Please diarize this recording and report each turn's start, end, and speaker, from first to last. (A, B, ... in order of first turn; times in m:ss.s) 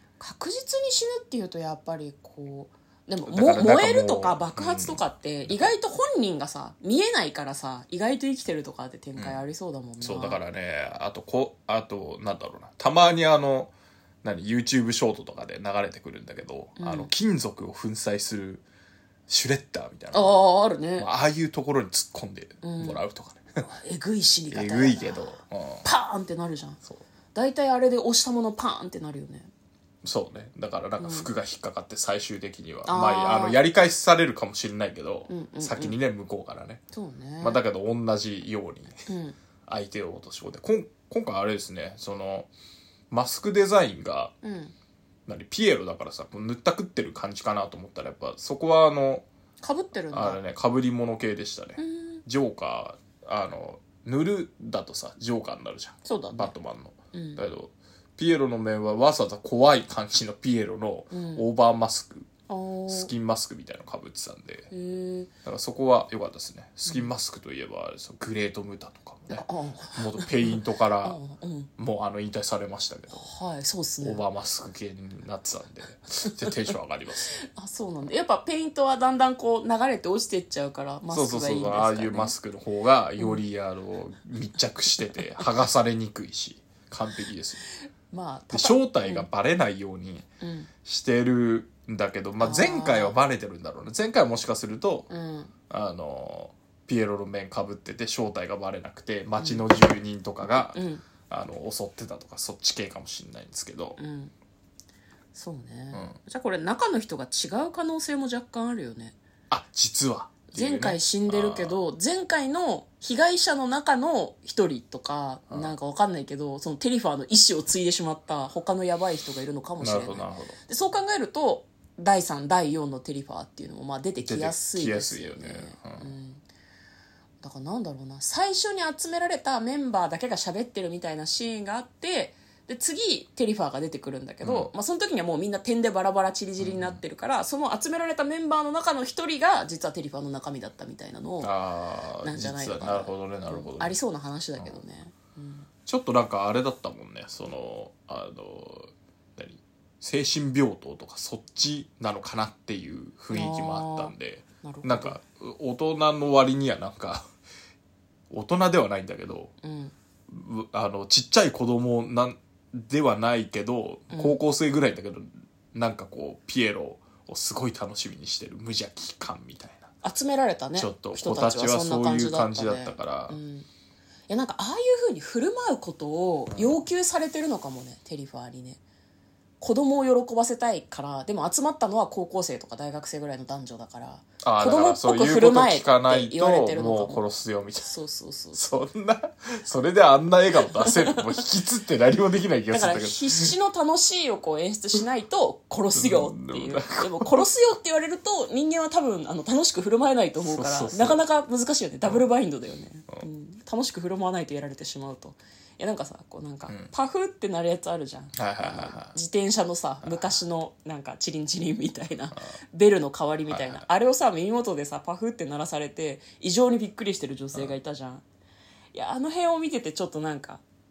0:00.2-0:10.4 A
0:03.2-0:05.7 B
0:09.2-0:09.4 B
0:10.0-0:18.6 B
0:16.8-0:17.1 A
0:19.3-0:20.4 B
0:20.1-0:21.1 A
0:21.0-0:23.7 B
0:22.6-0:23.0 A
0:23.7-0:26.8 A
0:24.5-0:25.9 B
0:27.3-0:29.5 A
0:30.0-0:36.8 B
0:31.0-0:31.3 A
0:32.8-0:33.6 A
0:35.3-0:36.0 A
0:36.9-0:37.6 A
0:37.4-0:39.0 B
0:39.1-0:39.4 A
0:39.6-0:42.5 B
0:43.1-0:44.3 B
0:44.4-0:44.7 A
0:45.3-0:49.3 B
0:49.6-0:50.4 A
0:50.1-1:02.3 B
0:51.8-0:52.2 A
0:56.0-0:56.5 A
0:57.1-0:57.4 A
1:01.1-1:01.4 A
1:02.5-1:03.1 A
1:02.9-1:04.7 B
1:04.7-1:05.3 A
1:05.4-1:11.2 B
1:06.8-1:07.1 A
1:09.3-1:11.7 A
1:11.8-1:13.3 B
1:13.1-1:14.2 A
1:14.0-1:17.3 B
1:17.4-1:22.3 A
1:21.1-1:27.6 B
1:23.2-1:23.4 A
1:28.1-1:29.3 A
1:28.5-1:30.2 B
1:30.4-1:30.7 A
1:30.8-1:35.1 B
1:32.4-1:33.2 A
1:35.1-1:35.5 A
1:35.7-1:44.0 B
1:39.4-1:39.7 A
1:40.5-1:41.0 A
1:44.0-1:44.3 A
1:45.3-1:49.2 A
1:45.9-1:46.2 B
1:49.5-1:51.8 B
1:50.5-2:06.4 A
1:59.8-2:00.6 B
2:04.2-2:06.1 B
2:07.4-2:21.5 A
2:14.4-2:14.7 B
2:16.6-2:17.0 B
2:21.4-2:24.0 B
2:22.2-2:25.7 A
2:25.8-2:37.2 B
2:33.3-2:35.2 A
2:38.3-2:39.5 B
2:39.6-2:39.9 A
2:40.3-2:49.9 B
2:44.1-2:44.4 A
2:50.0-2:53.7 A
2:50.8-2:53.4 B
2:54.3-2:58.8 A
2:56.5-2:56.8 B
2:59.6-3:07.2 A
3:04.4-3:07.9 B
3:07.8-3:08.6 A
3:08.5-3:13.6 B
3:10.7-3:11.2 A
3:12.7-3:38.2 A
3:15.9-3:17.4 B
3:20.4-3:21.2 B
3:28.3-3:29.2 B
3:30.0-3:30.3 B
3:33.5-3:33.8 B
3:38.9-3:40.6 A